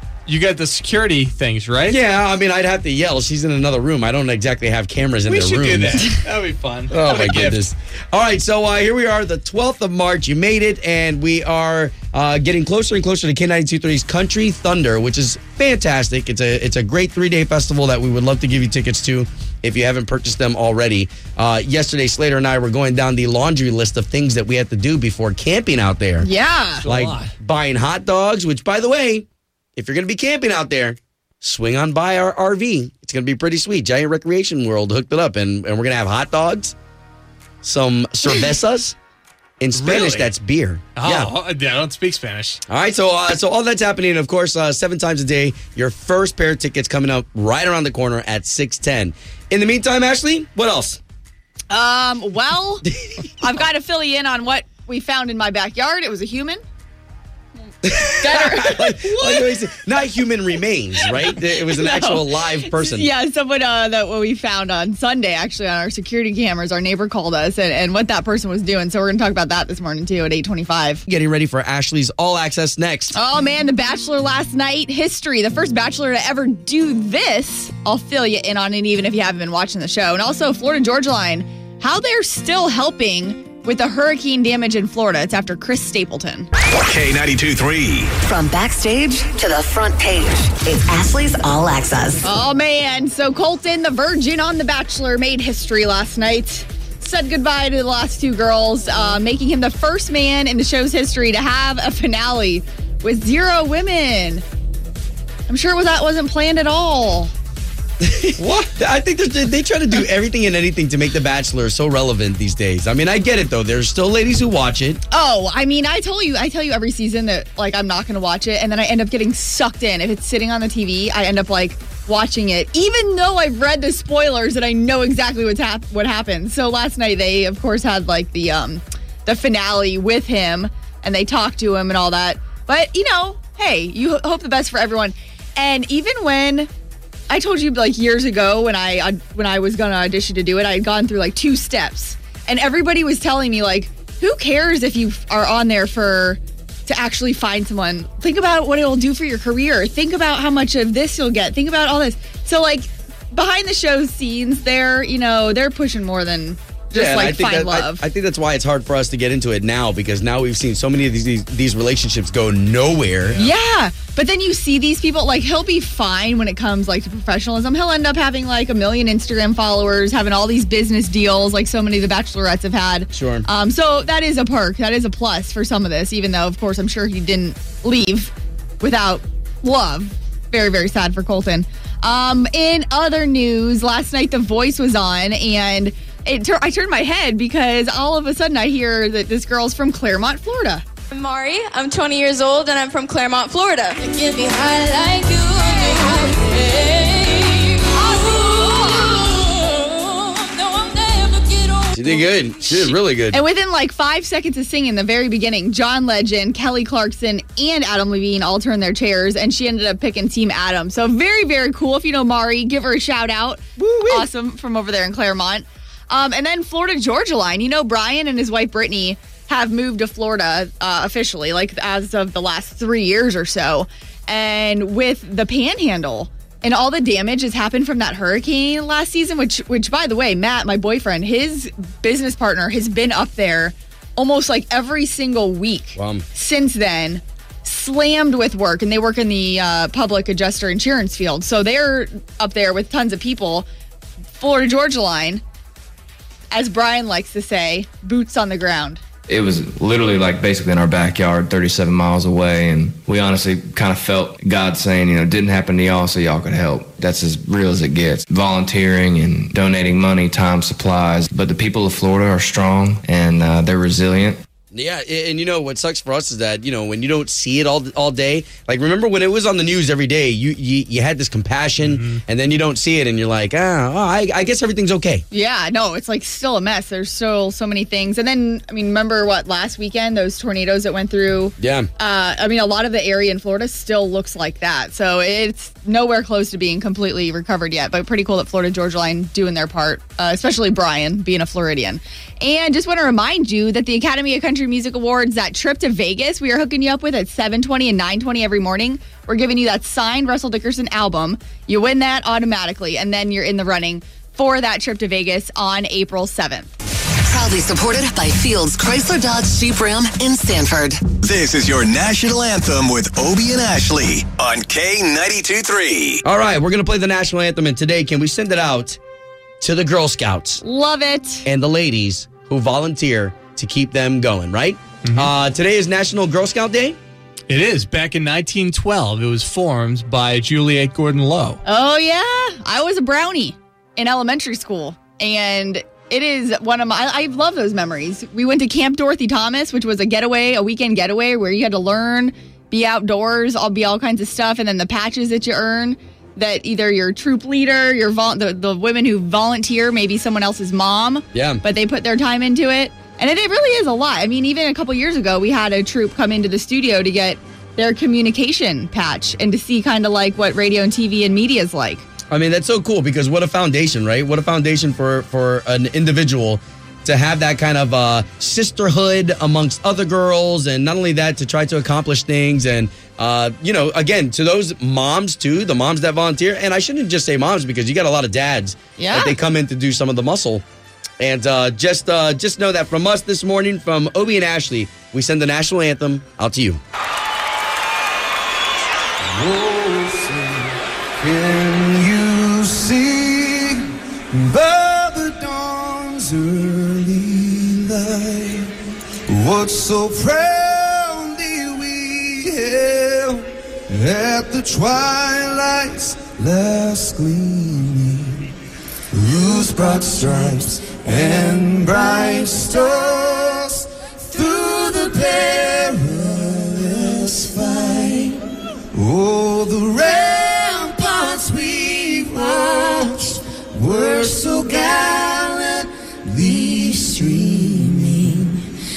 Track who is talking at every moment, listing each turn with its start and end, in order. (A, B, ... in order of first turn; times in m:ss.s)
0:00.2-0:02.0 A
0:01.8-0:06.1 B
0:05.2-0:07.6 A
0:06.9-0:26.3 B
0:26.2-0:26.8 C
0:26.8-0:27.3 A
0:26.8-0:36.7 B
0:37.6-0:38.9 B
0:39.6-0:41.3 B
0:39.8-0:40.3 A
0:41.0-0:42.6 A
0:42.7-0:51.0 B
0:51.7-0:52.8 C
0:52.9-0:53.3 B
0:53.4-0:56.6 C
0:57.8-1:03.1 B
0:58.1-0:59.5 C
1:01.1-1:11.0 C
1:11.1-1:13.2 B
1:13.1-1:26.5 C
1:26.7-1:28.1 D
1:28.2-1:32.2 E
1:32.2-1:44.4 C
1:45.5-1:47.3 C
1:48.0-1:55.0 B
1:55.1-2:16.7 C
2:17.3-2:38.0 C
2:36.9-2:43.4 B
2:43.4-3:10.8 C
2:53.1-2:53.4 B
3:11.1-3:22.1 F
3:21.9-3:23.4 B
3:23.3-4:03.7 C
3:33.8-3:34.2 B
3:56.0-3:56.2 B
4:04.4-4:05.4 C
4:06.5-4:09.0 C
4:09.3-4:24.4 G
4:24.7-4:35.2 B
4:31.8-4:32.2 A
4:35.3-5:06.7 C
4:41.6-4:41.9 B
5:07.2-5:11.0 E
5:11.2-5:16.2 D
5:16.2-5:19.0 B
5:19.6-5:20.6 B
5:20.6-5:21.4 C
5:21.4-5:27.0 B
5:27.5-5:31.6 A
5:31.6-6:02.0 C
5:51.3-5:51.6 B
6:02.3-6:20.6 B
6:19.0-6:19.3 C
6:21.2-6:26.8 B
6:29.2-6:38.7 H
6:39.3-6:48.5 H
6:49.1-6:58.4 H
6:58.9-7:08.6 H